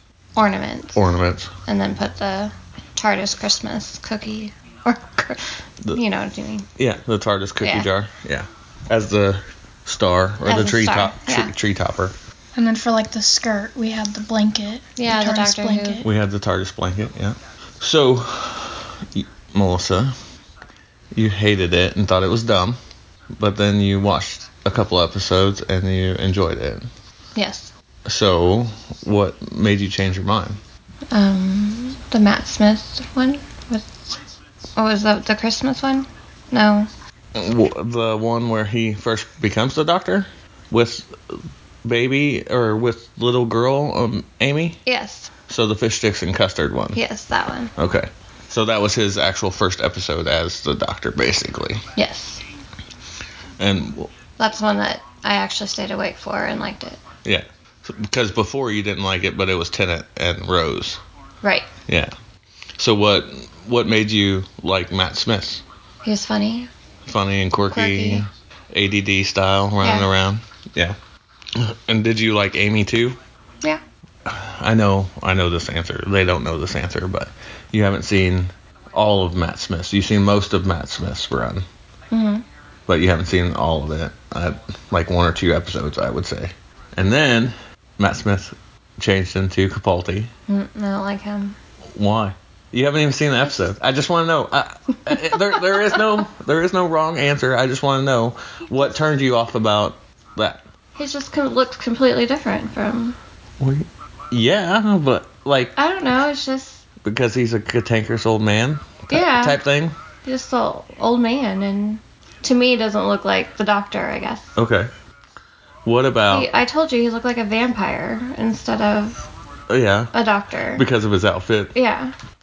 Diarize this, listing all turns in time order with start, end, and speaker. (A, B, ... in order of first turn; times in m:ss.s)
0:00.3-0:01.0 A
0:00.9-0:01.5 B
0:01.6-0:06.7 A
0:06.8-0:12.2 B
0:07.6-0:07.9 A
0:10.4-0:11.5 A
0:12.5-0:16.1 C
0:15.0-0:16.0 A
0:16.0-0:20.2 B
0:21.1-0:22.8 B
0:23.3-0:26.9 B
0:27.4-0:27.7 A
0:28.0-0:30.6 B
0:31.1-0:34.2 A
0:34.8-0:36.9 A
0:37.3-0:44.8 B
0:44.8-0:45.3 A
0:45.5-0:47.0 B
0:46.9-0:47.7 A
0:47.8-0:51.8 B
0:51.9-0:52.4 A
0:53.6-0:54.1 B
0:54.4-0:57.0 A
0:57.2-1:01.0 B
1:01.9-1:02.1 B
1:02.8-1:05.6 B
1:06.0-1:06.7 A
1:07.0-1:11.0 B
1:07.7-1:08.2 A
1:09.8-1:10.1 A
1:11.5-1:13.2 B
1:14.2-1:21.6 B
1:22.1-1:22.4 A
1:22.9-1:30.3 B
1:30.5-1:31.6 A
1:31.9-1:40.6 B
1:41.0-1:43.2 A
1:43.6-1:45.7 B
1:45.8-1:46.8 A
1:47.0-1:50.0 B
1:49.1-1:49.6 A
1:50.2-1:54.6 A
1:54.6-1:54.9 B
1:55.8-1:56.5 B
1:56.3-1:59.3 A
1:59.7-2:00.1 B
2:00.1-2:00.8 A
2:00.7-2:01.7 B
2:01.7-2:02.1 A